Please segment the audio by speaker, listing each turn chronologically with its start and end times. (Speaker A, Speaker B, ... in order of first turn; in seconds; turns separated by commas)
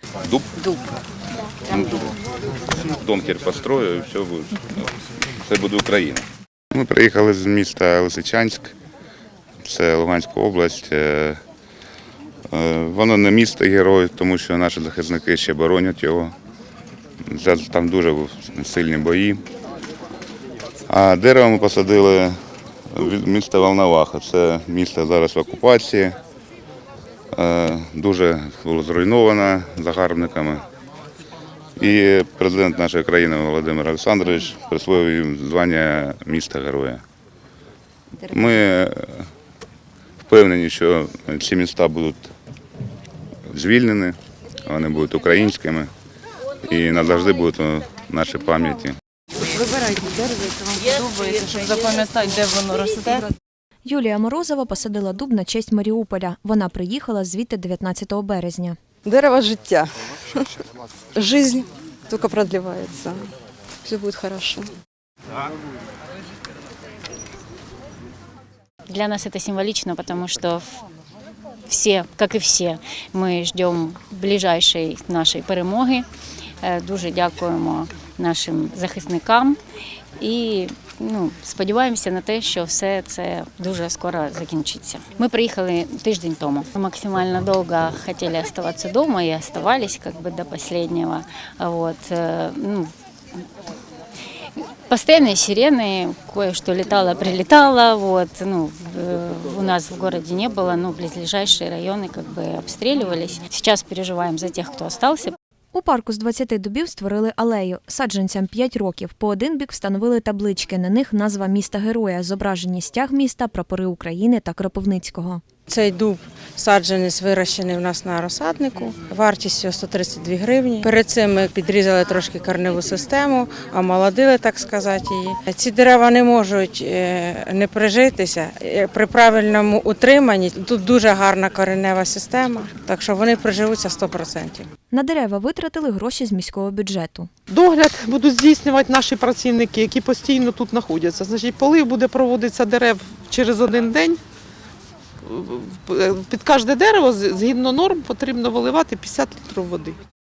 Speaker A: 0.2-0.7, Speaker A: 1.7-2.2, Speaker A: 2.8-8.7, Speaker A: 9.6-11.4, Speaker A: 12.5-16.3, Speaker A: 17.2-19.4, Speaker A: 20.9-22.4, Speaker A: 22.9-26.2, Speaker A: 27.3-30.6, Speaker A: 31.8-37.0, Speaker A: 38.3-39.3, Speaker A: 40.3-42.3, Speaker A: 43.5-45.9, Speaker A: 46.6-49.0, Speaker B: 49.5-53.3, Speaker C: 53.8-58.8, Speaker B: 59.0-60.6, Speaker B: 61.1-64.7, Speaker D: 68.9-70.8, Speaker D: 71.7-76.1, Speaker D: 76.6-79.6, Speaker D: 80.2-92.9, Speaker D: 94.6-105.3, Speaker C: 105.7-115.4, Speaker E: 115.7-134.7, Speaker C: 134.9-137.3, Speaker F: 137.5-144.2, Speaker F: 145.2-150.0